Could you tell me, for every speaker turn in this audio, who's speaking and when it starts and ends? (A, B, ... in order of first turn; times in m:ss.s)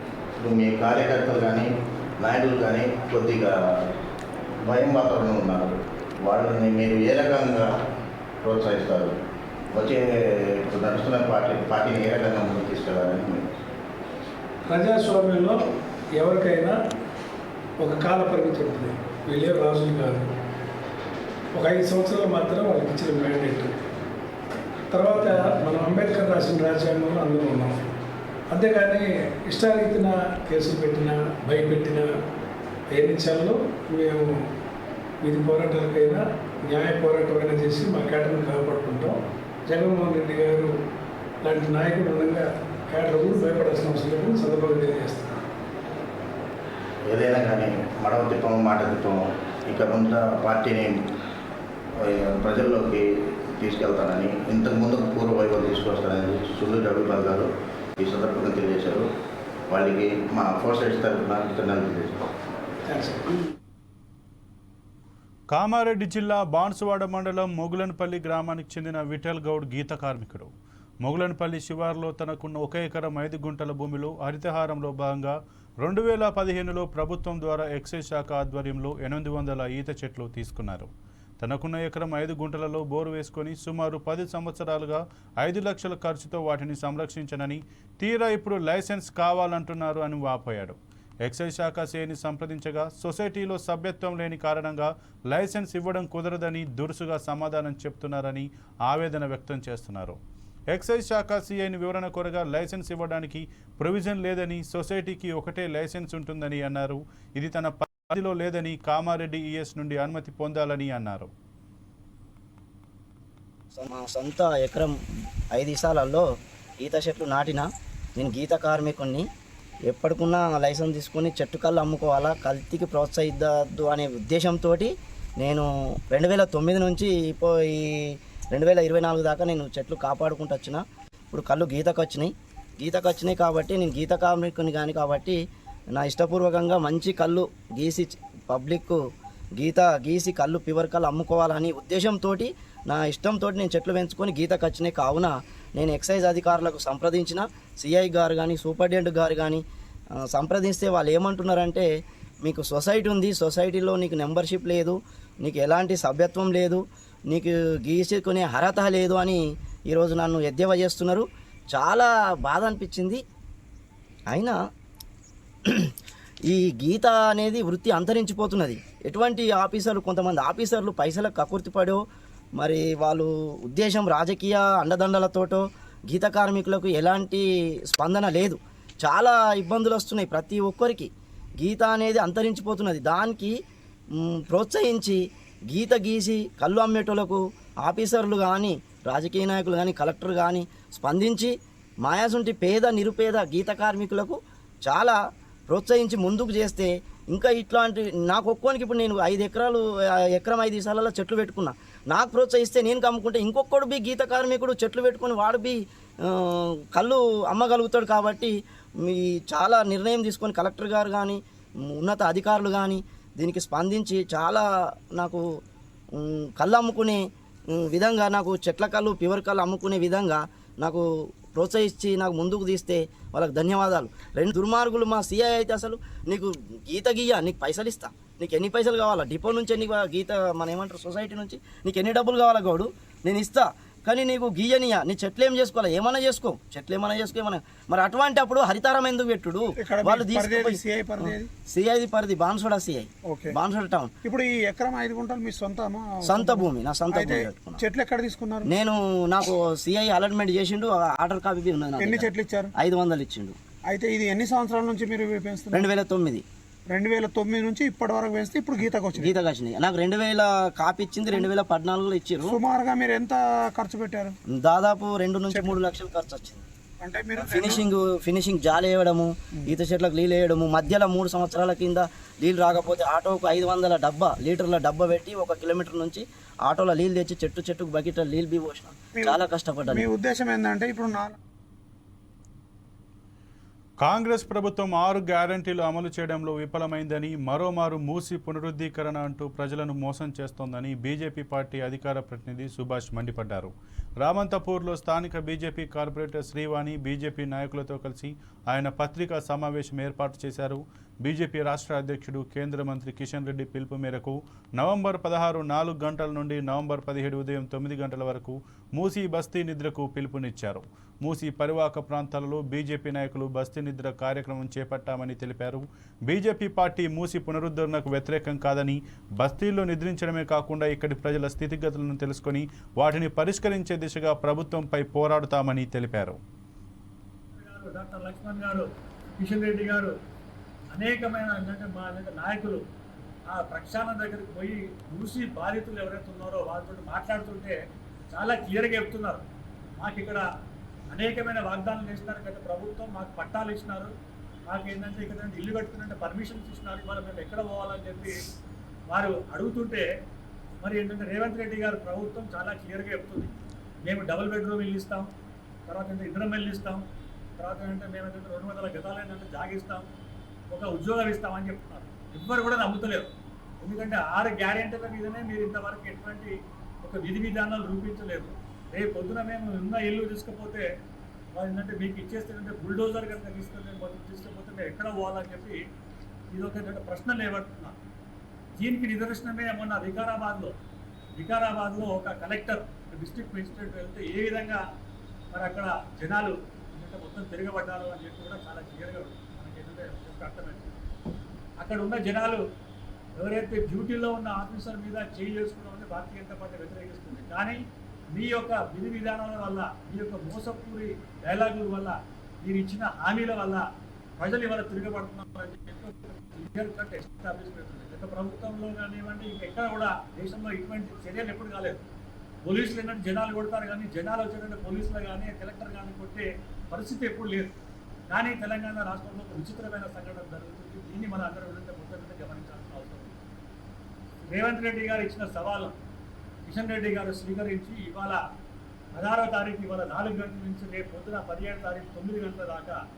0:00.4-0:03.6 A
0:04.6-0:07.7 A
0:08.4-0:09.1 A
0:09.7-0:13.6 A
0:14.7-0:15.6 B
0:16.2-0:16.8 B
0:17.8-0:20.3 B
0:21.5-0:23.8 B
0:24.9-0:27.8 B
0:28.5-0:32.1 B
0:32.9-0:34.4 B
0:35.2-0:40.7 B
0:41.4-0:45.4 B
0:47.1-0:51.0 A
0:52.0-0:57.5 A
0:58.0-0:59.1 A
0:59.7-1:02.3 A
1:02.9-1:03.4 B
1:05.5-1:10.5 C
1:11.0-1:20.9 C
1:21.4-1:40.2 C
1:40.7-1:51.3 C
1:53.8-1:55.0 D
1:55.5-1:56.3 D
1:56.8-1:59.2 D
1:59.9-2:15.4 D
2:15.9-2:19.0 D
2:19.6-2:29.6 D
2:30.2-2:31.9 D
2:32.4-2:43.2 D
2:44.3-2:44.6 D
2:46.5-2:52.0 D
2:52.6-3:03.5 D
3:04.2-3:15.2 D
3:15.7-3:35.4 D
3:36.2-4:04.1 D
3:59.8-4:01.5 E
4:03.3-4:03.6 E
4:04.2-4:08.7 E
4:06.2-4:07.8 D
4:08.7-4:13.6 D
4:12.0-4:12.7 E
4:13.9-4:15.9 E
4:15.7-4:16.4 D
4:16.9-4:19.3 E
4:19.2-4:22.6 D
4:22.4-4:24.3 E
4:24.5-4:26.6 D
4:25.5-4:25.8 E
4:27.0-4:27.8 E
4:27.4-4:40.0 D
4:39.2-4:41.4 E
4:44.0-5:26.4 C
5:27.5-5:28.9 F
5:29.4-5:30.1 F
5:30.9-5:32.8 F
5:33.5-5:37.8 F
5:38.3-5:39.4 F
5:40.0-5:40.4 F
5:41.1-5:44.1 F
5:44.7-5:48.5 F
5:49.1-5:50.0 F
5:50.8-5:53.5 F
5:54.0-5:55.3 F
5:55.9-5:57.0 F
5:57.6-6:00.1 F
6:00.7-6:03.3 F
6:03.8-6:10.9 F
6:11.5-6:15.8 F
6:16.5-6:18.0 F
6:18.8-6:20.7 F
6:21.4-6:24.8 F
6:25.5-6:30.9 F
6:31.8-6:32.6 F
6:33.4-6:37.8 F
6:38.3-6:43.8 F
6:44.4-6:52.0 F
6:52.6-6:57.7 F
6:58.3-7:03.4 F
7:04.5-7:06.0 F
7:06.6-7:08.4 F
7:09.2-7:13.0 F